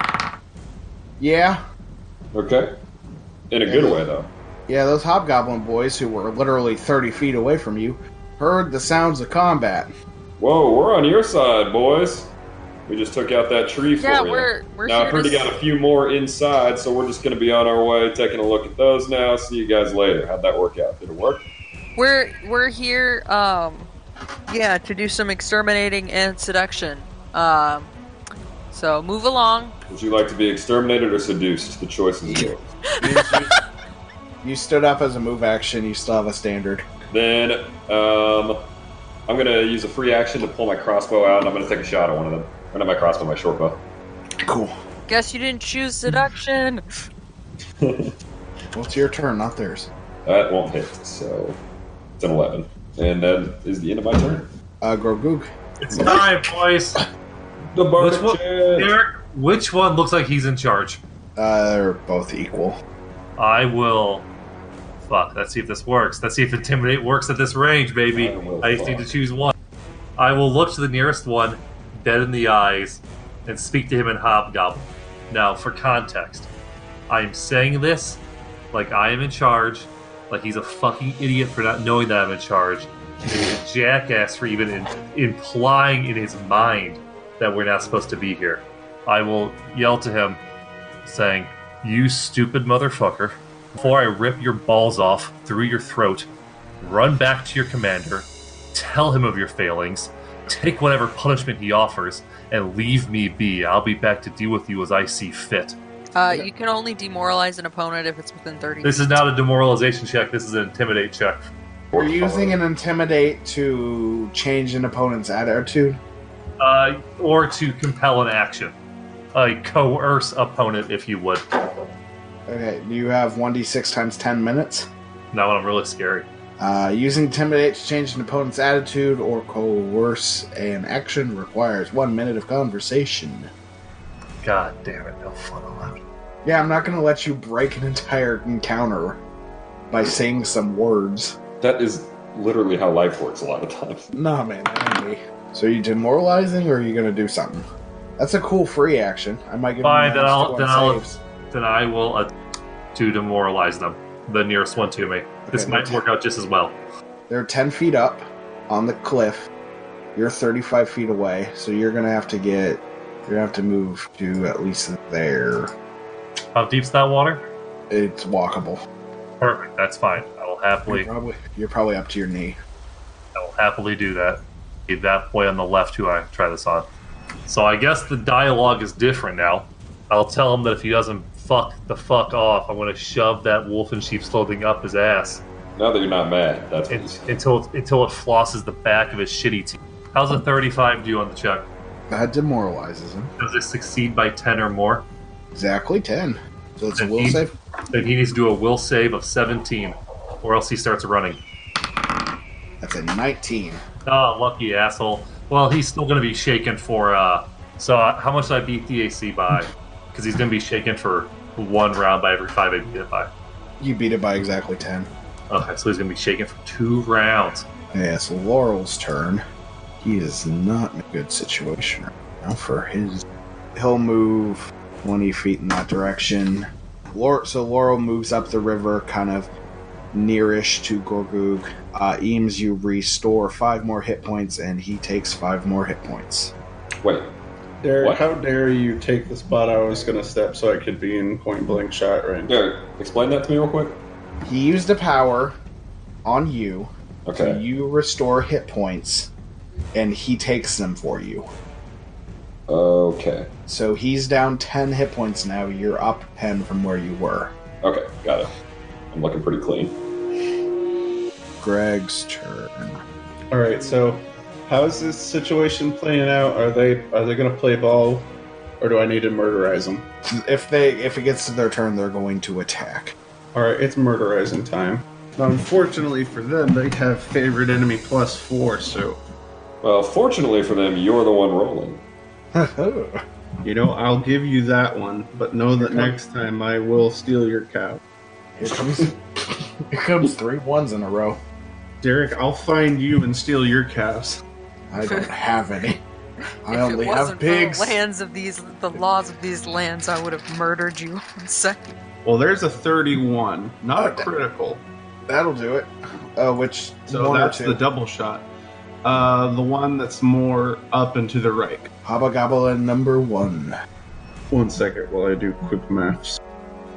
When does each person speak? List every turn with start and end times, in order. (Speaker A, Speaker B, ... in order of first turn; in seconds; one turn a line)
Speaker A: 1.2-1.6
Speaker B: 2.3-2.8
Speaker B: 3.5-4.3
Speaker A: 3.7-4.0
Speaker A: 4.7-9.9
Speaker B: 10.4-12.3
Speaker B: 12.8-21.5
Speaker C: 14.0-15.5
Speaker C: 21.9-23.9
Speaker C: 24.5-27.9
Speaker C: 28.7-29.7
Speaker B: 29.9-32.6
Speaker C: 33.0-33.5
Speaker A: 33.0-33.5
Speaker A: 34.4-36.9
Speaker B: 37.1-38.6
Speaker B: 39.3-43.8
Speaker A: 44.4-44.7
Speaker C: 45.1-46.8
Speaker B: 47.8-48.1
Speaker A: 48.7-49.9
Speaker B: 50.2-51.6
Speaker B: 52.2-54.5
Speaker A: 54.8-56.2
Speaker D: 55.8-57.0
Speaker B: 57.7-58.9
Speaker D: 58.0-61.0
Speaker A: 61.4-62.8
Speaker D: 63.4-64.3
Speaker D: 65.0-69.5
Speaker B: 68.1-69.1
Speaker D: 70.2-76.5
Speaker D: 77.1-78.2
Speaker D: 78.7-90.4
Speaker D: 91.0-96.3
Speaker D: 96.8-105.8
Speaker C: 106.2-109.1
Speaker D: 108.8-111.4
Speaker B: 111.9-112.6
Speaker A: 111.9-116.0
Speaker D: 116.6-118.7
Speaker D: 119.3-121.5
Speaker A: 122.5-124.9
Speaker D: 125.3-126.3
Speaker A: 126.6-133.5
Speaker D: 134.4-136.0
Speaker A: 136.4-139.2
Speaker A: 139.9-141.4
Speaker B: 141.6-144.1
Speaker A: 144.1-147.7
Speaker A: 148.2-151.2
Speaker D: 149.8-152.3
Speaker D: 152.9-156.8
Speaker A: 155.5-156.0
Speaker A: 157.3-159.5
Speaker A: 160.1-165.7
Speaker D: 166.5-167.4
Speaker A: 167.9-168.8
Speaker D: 169.4-171.1
Speaker A: 170.8-172.6
Speaker D: 173.3-176.9
Speaker D: 177.4-185.4
Speaker B: 185.8-187.3
Speaker D: 186.9-191.7
Speaker A: 192.1-193.3
Speaker D: 193.4-195.1
Speaker A: 195.5-197.5
Speaker D: 197.0-201.4
Speaker A: 202.8-203.8
Speaker D: 204.1-213.3
Speaker A: 213.8-215.1
Speaker D: 215.5-217.6
Speaker A: 217.9-219.4
Speaker A: 220.0-229.5
Speaker A: 230.1-236.5
Speaker B: 237.0-237.3
Speaker E: 237.8-242.6
Speaker B: 238.0-238.2
Speaker B: 242.4-244.0
Speaker A: 244.4-245.5
Speaker A: 246.2-249.3
Speaker B: 247.2-247.6
Speaker A: 249.9-251.5
Speaker B: 252.7-253.5
Speaker A: 253.7-257.5
Speaker B: 257.8-258.5
Speaker B: 259.1-260.0
Speaker A: 261.6-263.0
Speaker E: 263.5-270.1
Speaker A: 270.3-273.1
Speaker E: 273.5-279.2
Speaker B: 279.8-282.0
Speaker A: 282.5-283.2
Speaker E: 283.6-288.0
Speaker A: 285.8-286.2
Speaker A: 288.6-289.2
Speaker A: 289.9-291.4
Speaker E: 292.0-294.4
Speaker A: 294.9-296.0
Speaker A: 296.7-298.0
Speaker C: 296.7-301.9
Speaker E: 302.2-304.8
Speaker A: 303.9-304.3
Speaker A: 305.3-307.8
Speaker E: 307.1-308.5
Speaker E: 309.0-311.9
Speaker A: 312.0-313.7
Speaker E: 314.5-316.4